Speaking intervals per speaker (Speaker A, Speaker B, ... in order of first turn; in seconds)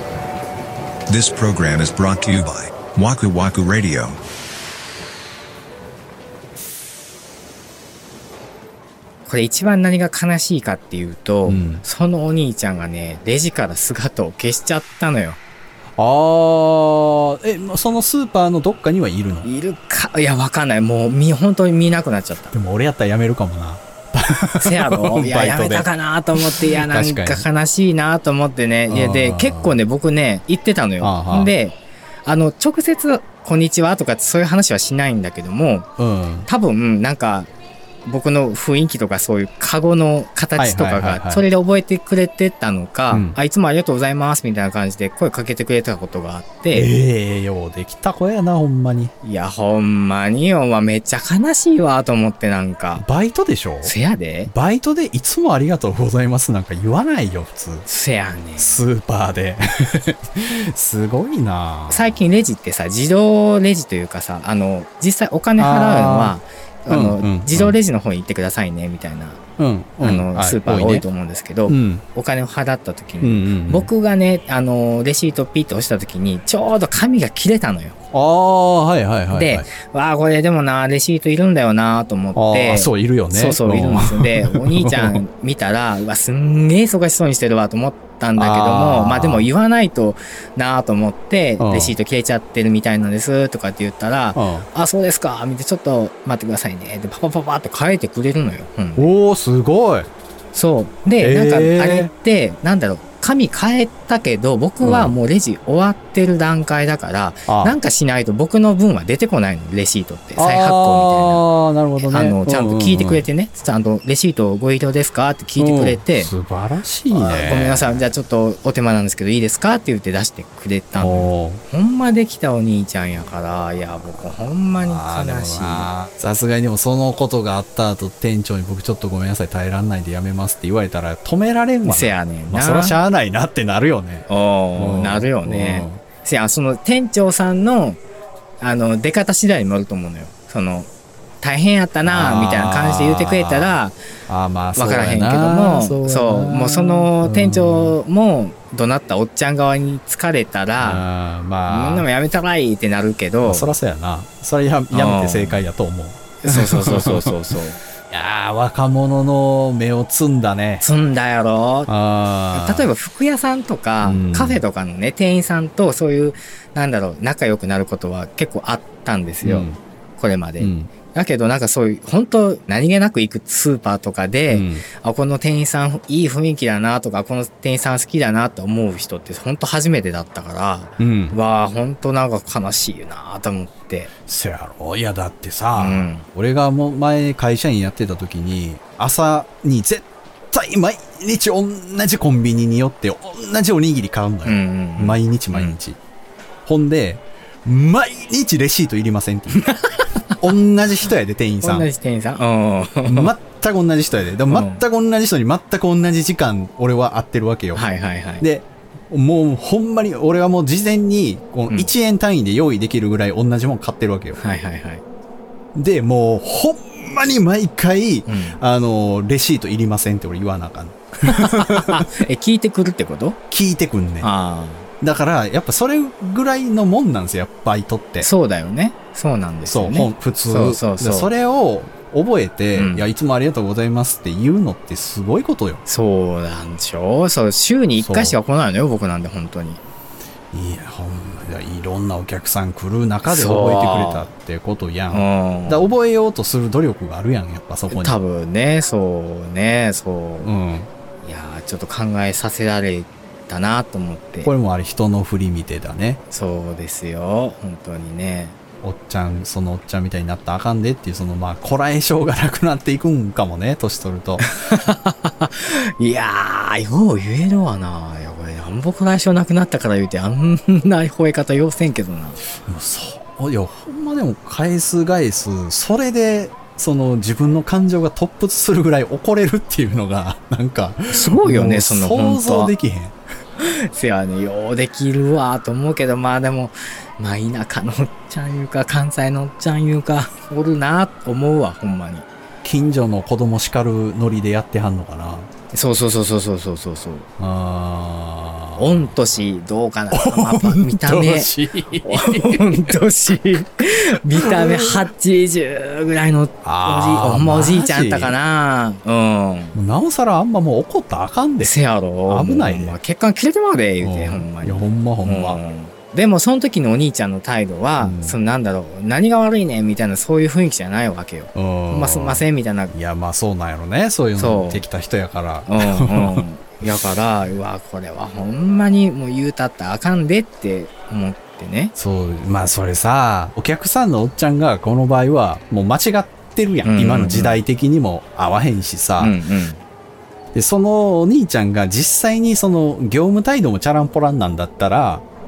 Speaker A: 1.1-4.2
Speaker B: 9.2-15.4, 19.4-22.5, 24.6-35.9, 36.5-37.5, 38.0-46.9, 49.2-53.0, 53.8-54.5, 57.8-58.8, 61.9-69.4, 70.0-77.9, 79.3-99.1, 100.5-111.4, 112.0-116.3, 117.1-125.9, 131.8-133.0, 134.3-138.0, 138.6-140.9, 141.4-144.0, 144.7-151.1, 151.7-153.8, 154.9-155.7, 156.4-157.8, 160.8-161.9, 162.5-184.1, 185.7-186.2, 194.4-195.8, 199.6-200.3, 201.6-203.3, 204.5-204.8, 207.7-208.4, 214.4-215.0, 218.2-218.6, 221.2-223.4, 224.2-224.8, 228.2-231.3, 232.7-233.1, 235.8-239.8, 243.2-244.3, 245.1-245.9, 247.9-250.5, 251.2-254.5, 256.3-258.6, 264.4-272.4, 281.1-282.7, 283.6-292.3, 295.7-297.3, 298.8-301.5, 302.0-309.8, 311.6-322.9, 324.4-324.8, 325.6-331.9, 336.8-337.6, 339.2-339.8
Speaker C: 11.4-11.8, 16.0-19.5, 22.5-27.4, 28.9-29.8, 31.0-31.5, 36.0-36.5, 40.6-41.4, 43.1-43.4, 46.7-49.1, 53.0-53.9, 54.5-57.9, 58.6-62.2, 65.6-66.4, 66.9-67.8, 69.6-71.0, 71.7-72.0, 73.2-73.9, 78.1-79.7, 82.3-85.2, 88.4-89.5, 91.6-92.0, 94.3-94.7, 99.0-100.1, 101.2-102.1, 104.8-105.2, 107.5-107.8, 110.3-113.3, 115.6-118.0, 120.9-121.6, 124.8-134.2, 134.8-136.0, 142.0-148.0, 150.8-152.1, 153.4-157.3, 158.1-160.9, 161.9-162.9, 164.0-164.6, 169.4-169.8, 170.6-170.9, 174.5-174.8, 181.0-181.3, 184.3-196.0, 196.6-199.8, 200.4-201.9, 203.0-207.8, 208.4-214.4, 215.7-222.0, 223.5-224.3, 225.0-228.3, 229.7-235.8, 238.0-238.4, 240.5-248.2, 250.4-250.9, 254.4-256.2, 258.8-264.5, 272.6-283.1, 292.6-295.5, 297.4-299.1, 300.1-302.9, 304.4-305.1, 306.6-308.4, 309.7-313.0, 314.0-315.6, 318.0-318.4, 321.5-326.9, 331.9-339.4, 340.5-345.2